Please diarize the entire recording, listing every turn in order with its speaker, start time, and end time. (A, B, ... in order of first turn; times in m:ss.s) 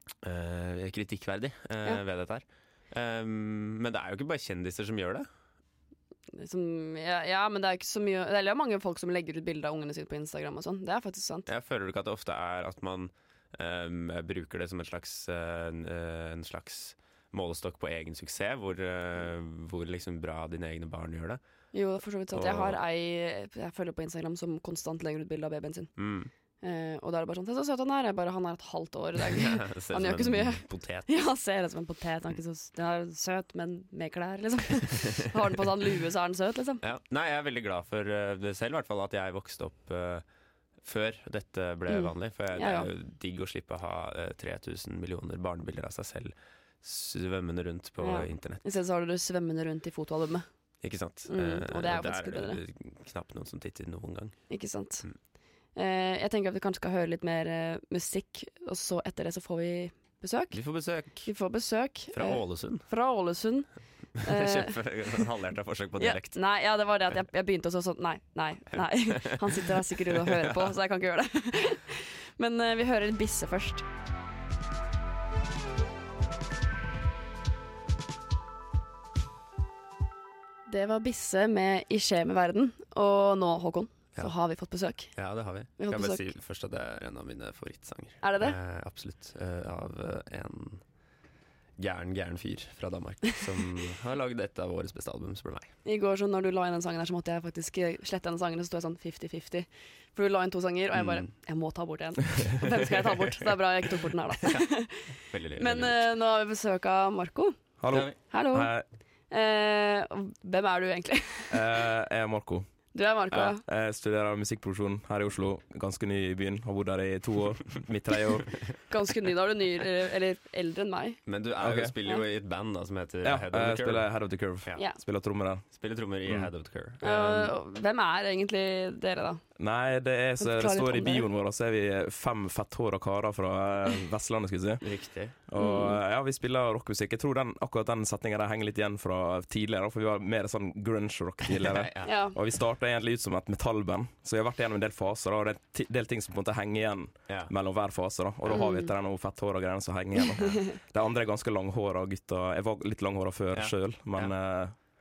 0:00.2-0:05.3 A
0:06.3-0:11.5 B
0:11.5-0:21.4 A
0:21.7-0:26.0 B
0:22.3-0:22.8 A
0:26.0-0:26.3 A
0:26.6-0:36.8 B
0:29.3-0:31.2 A
0:36.8-0:40.2 A
0:40.8-0:48.6 A
0:41.9-0:42.9 B
0:48.0-0:50.5 B
0:50.8-0:54.4 A
0:51.3-0:52.6 B
0:54.5-0:55.0 B
0:55.8-1:00.6 B
1:00.5-1:01.3 A
1:01.2-1:04.8 B
1:02.1-1:02.8 A
1:04.3-1:06.4 A
1:06.0-1:13.8 B
1:10.4-1:10.7 A
1:20.7-1:25.2 B
1:25.1-1:30.8 A
1:25.8-1:26.3 B
1:28.2-1:28.6 B
1:31.8-1:35.7 A
1:35.8-1:47.6 B
1:41.0-1:41.3 A
1:44.4-1:46.1 A
1:47.8-1:48.8 C
1:48.1-1:48.7 B
1:49.3-1:51.9 B
1:51.5-1:52.7 C
1:52.9-1:53.6 B
1:53.3-1:58.6 C
1:58.9-2:01.2 B
2:01.3-2:04.8 A
2:01.6-2:01.9 C
2:03.2-2:05.7 C
2:05.8-2:07.5 A
2:06.3-2:06.5 C
2:07.0-2:09.4 B
2:09.6-2:14.8 C
2:10.4-2:11.3 B
2:14.8-2:15.4 A
2:15.5-2:34.8 C
2:15.6-2:16.0 B
2:21.6-2:22.1 A
2:22.0-2:22.4 B
2:28.5-2:28.9 B
2:33.5-2:34.4 A